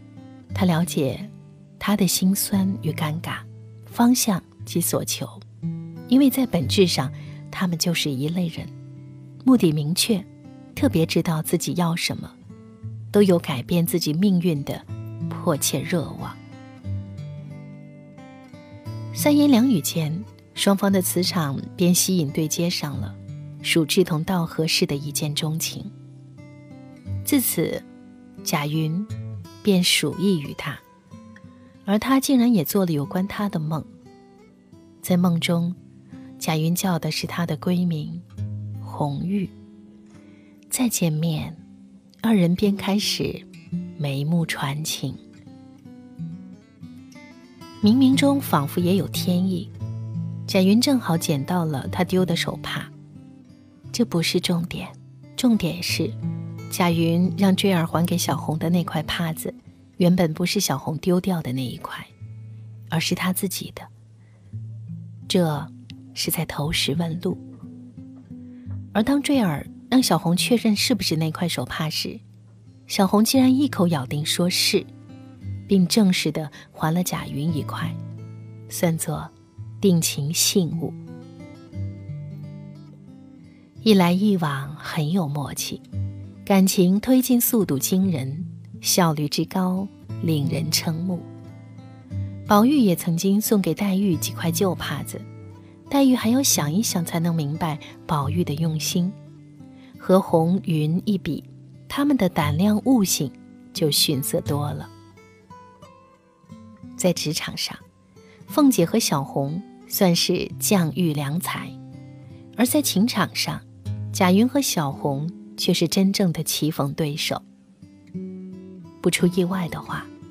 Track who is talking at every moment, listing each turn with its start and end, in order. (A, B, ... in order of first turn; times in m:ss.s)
0:00.5-0:05.4 A
0:06.1-0:08.7 A
0:09.4-0:12.3 A
0:13.1-0:16.4 A
0:19.1-0:25.9 A
0:27.2-0:27.8 A
0:28.4-0:29.1 A
0:29.6-0:30.8 A
0:31.8-0:33.9 A
0:35.0-0:35.8 A
0:36.4-0:38.2 A
0:38.8-0:39.5 A
0:40.7-0:41.6 A
0:42.2-0:43.4 A
0:44.0-0:45.2 A
0:47.8-0:49.7 A
0:50.5-0:52.9 A
0:53.9-0:56.2 A
0:56.7-1:02.1 A
1:02.9-1:03.9 A
1:05.3-1:07.4 A
1:08.9-1:12.2 A
1:12.9-1:14.9 A
1:15.7-1:18.0 A
1:18.7-1:21.0 A
1:23.8-1:25.8 A
1:26.4-1:31.3 A
1:32.5-1:35.2 A
1:35.9-1:39.2 A
1:40.0-1:44.9 A
1:47.0-1:47.8 A
1:48.5-1:51.8 A
1:52.6-1:57.4 A
1:59.0-2:00.1 A